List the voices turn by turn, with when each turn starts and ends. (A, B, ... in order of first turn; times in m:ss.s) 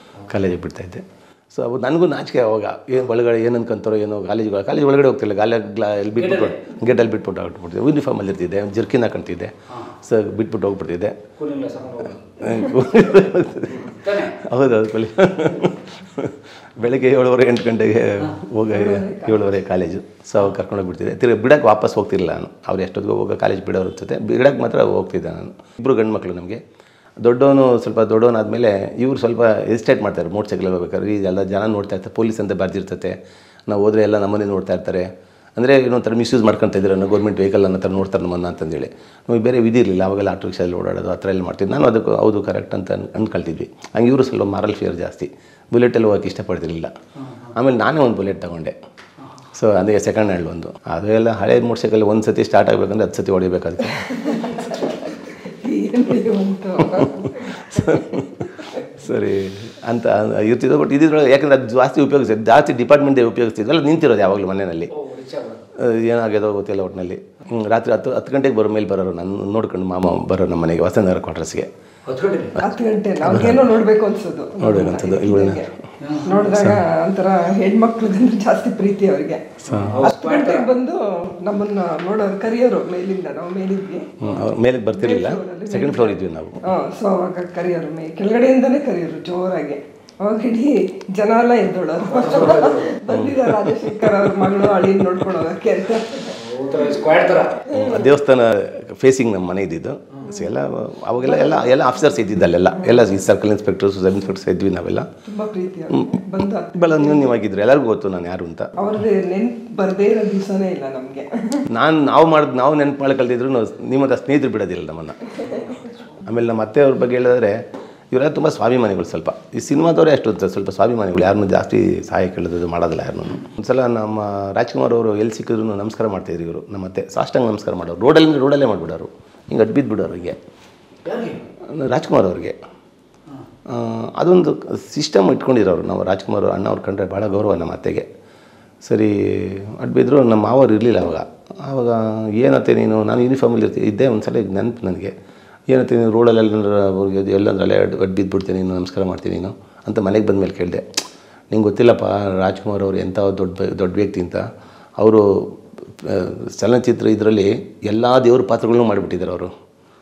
0:00.3-0:11.2 A
0:06.2-0:06.7 B
0:11.4-0:12.9 B
0:12.4-0:26.6 A
0:13.7-0:14.3 B
0:18.7-0:19.4 C
0:27.2-0:33.2 A
0:33.7-0:46.9 A
0:47.5-0:48.8 A
0:49.5-0:54.1 A
0:54.0-0:55.1 C
0:55.6-0:58.8 C
0:56.9-1:04.9 A
1:04.9-1:05.6 B
1:05.8-1:11.7 A
1:12.0-1:12.6 B
1:12.6-1:15.7 C
1:13.2-1:13.6 A
1:14.6-1:15.6 A
1:16.0-1:16.3 B
1:16.2-1:24.1 C
1:16.4-1:16.8 A
1:19.6-1:20.0 A
1:19.7-1:20.7 B
1:24.2-1:26.6 A
1:24.9-1:36.4 C
1:32.1-1:32.9 B
1:33.1-1:35.0 A
1:36.3-1:37.6 B
1:37.7-1:38.1 C
1:37.7-1:45.1 A
1:41.2-1:41.6 C
1:45.2-1:47.3 C
1:45.9-1:48.8 A
1:48.8-1:51.6 C
1:51.7-1:55.6 A
1:56.2-2:10.4 A
2:11.0-2:11.4 B
2:11.7-2:12.6 A
2:13.7-2:18.1 A
2:18.8-2:25.1 A
2:25.7-2:30.8 A
2:31.5-2:34.4 A
2:35.0-2:39.5 A